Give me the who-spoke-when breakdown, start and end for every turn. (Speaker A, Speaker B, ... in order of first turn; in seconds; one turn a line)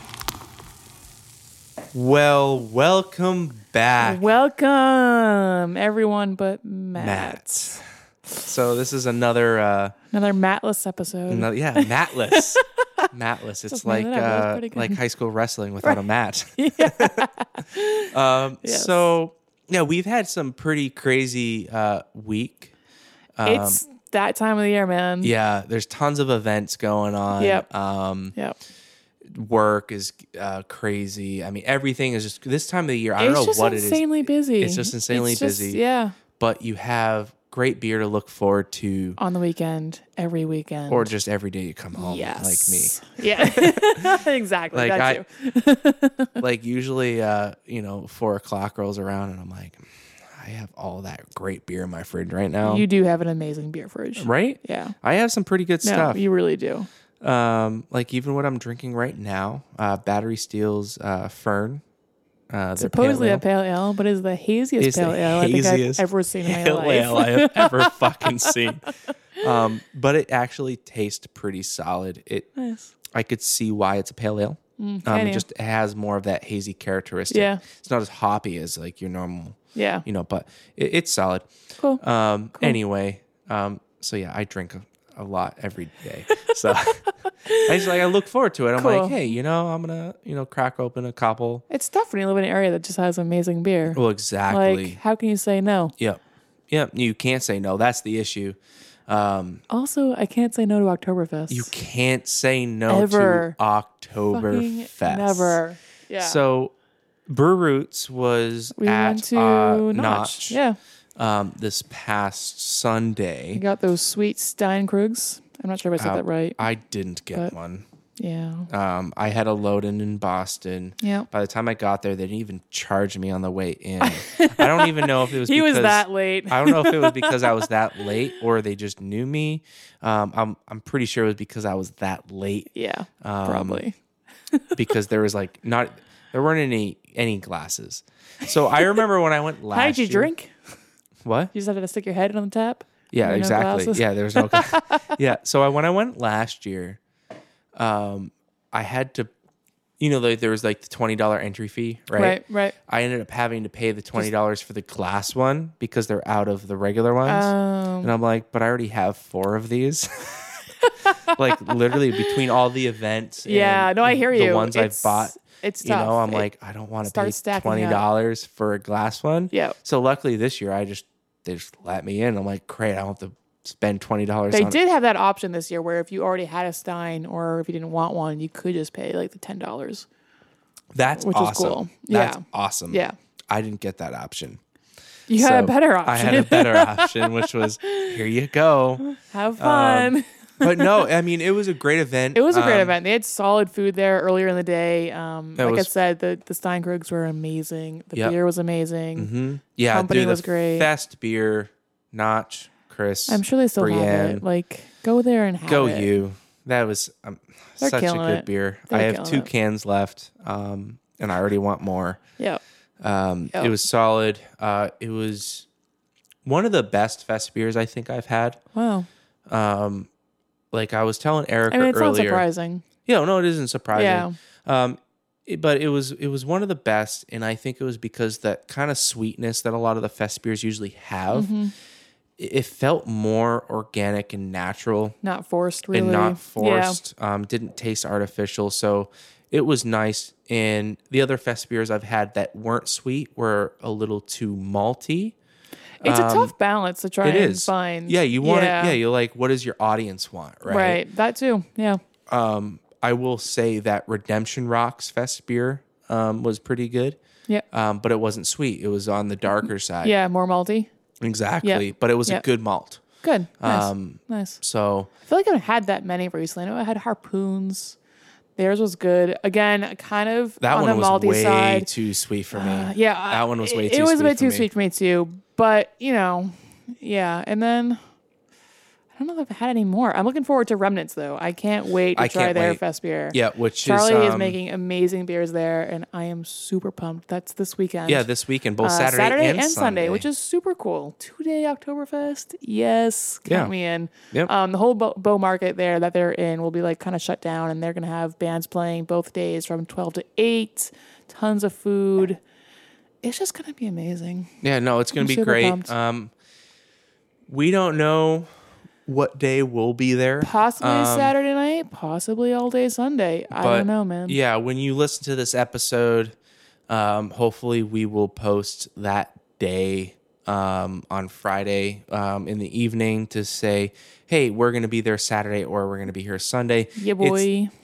Speaker A: 1.9-4.2
Speaker B: 4.0-7.8
Speaker A: 6.9-7.8
Speaker A: 8.4-9.9
Speaker B: 10.1-13.1
Speaker A: 11.3-17.3
Speaker B: 13.7-15.0
Speaker B: 16.6-19.1
Speaker A: 18.1-22.7
Speaker A: 23.4-23.8
Speaker B: 23.4-25.3
Speaker A: 25.2-28.3
Speaker B: 27.4-27.6
Speaker A: 29.3-34.0
Speaker B: 33.2-36.2
Speaker A: 34.6-35.8
Speaker A: 36.4-39.2
Speaker B: 39.2-41.1
Speaker A: 40.9-44.1
Speaker B: 42.0-46.4
Speaker A: 44.7-45.2
Speaker A: 46.4-52.9
Speaker B: 52.6-54.9
Speaker A: 54.2-56.2
Speaker B: 55.8-56.9
Speaker A: 57.2-61.8
Speaker A: 62.5-63.4
Speaker B: 62.8-68.6
Speaker A: 64.8-68.8
Speaker A: 69.4-72.5
Speaker B: 72.5-72.9
Speaker A: 73.1-81.5
Speaker B: 74.8-75.4
Speaker B: 77.3-77.6
Speaker B: 79.7-80.0
Speaker A: 82.0-87.0
Speaker B: 87.4-87.9
Speaker A: 87.5-91.6
Speaker B: 88.8-89.2
Speaker B: 91.7-95.9
Speaker A: 93.9-95.0
Speaker A: 96.0-99.6
Speaker B: 99.7-101.7
Speaker A: 101.5-105.6
Speaker B: 102.9-103.6
Speaker B: 104.3-106.4
Speaker A: 106.2-106.7
Speaker A: 107.3-110.6
Speaker B: 108.8-110.8
Speaker A: 111.2-113.6
Speaker B: 113.5-116.6
Speaker A: 116.0-117.8
Speaker B: 118.2-118.7
Speaker A: 118.7-132.7
Speaker B: 121.0-121.3
Speaker B: 124.0-127.7
Speaker B: 132.7-133.9
Speaker A: 133.2-133.8
Speaker A: 134.7-140.3
Speaker B: 139.7-140.5
Speaker A: 141.2-141.5
Speaker B: 141.5-145.2
Speaker A: 143.1-147.0
Speaker A: 147.7-149.3
Speaker A: 150.0-160.7
Speaker B: 152.1-152.7
Speaker B: 157.2-158.1
Speaker B: 160.8-162.3
Speaker A: 161.3-174.8
Speaker B: 163.4-166.5
Speaker B: 167.0-168.0
Speaker B: 169.5-169.8
Speaker B: 174.5-180.1
Speaker A: 180.9-184.6
Speaker B: 181.2-183.2
Speaker B: 185.3-188.2
Speaker A: 185.3-189.0
Speaker B: 189.0-191.1
Speaker A: 189.6-192.9
Speaker B: 192.3-199.3
Speaker A: 195.6-195.9
Speaker A: 199.2-204.4
Speaker B: 199.9-200.9
Speaker B: 203.3-206.1
Speaker A: 205.7-212.2
Speaker B: 207.8-209.5
Speaker A: 213.0-215.7
Speaker A: 216.4-218.6
Speaker B: 218.7-219.1
Speaker A: 219.5-220.1
Speaker A: 220.7-222.4
Speaker B: 221.7-222.8
Speaker A: 223.0-231.5
Speaker B: 223.9-224.3
Speaker B: 231.3-231.7
Speaker A: 232.4-235.2
Speaker B: 235.2-237.0
Speaker A: 235.9-245.3
Speaker B: 246.0-249.0
Speaker A: 246.0-246.5
Speaker A: 247.2-251.0
Speaker B: 250.7-252.0
Speaker A: 252.3-257.2
Speaker A: 257.7-260.1
Speaker B: 260.0-260.9
Speaker A: 261.2-263.0
Speaker B: 261.6-262.4
Speaker B: 263.2-264.6
Speaker A: 263.6-265.1
Speaker B: 265.2-268.0
Speaker B: 268.6-271.9
Speaker A: 270.6-274.7
Speaker B: 272.5-278.0
Speaker B: 279.1-288.3
Speaker A: 282.1-282.8
Speaker A: 283.3-284.6
Speaker A: 288.1-290.2
Speaker B: 288.8-302.4
Speaker A: 293.4-293.7
Speaker B: 303.2-304.5
Speaker A: 304.6-306.3
Speaker B: 305.2-305.9
Speaker A: 307.5-308.5
Speaker A: 309.1-311.3
Speaker B: 310.4-314.4
Speaker A: 313.5-316.3
Speaker A: 316.9-327.5
Speaker B: 327.0-327.7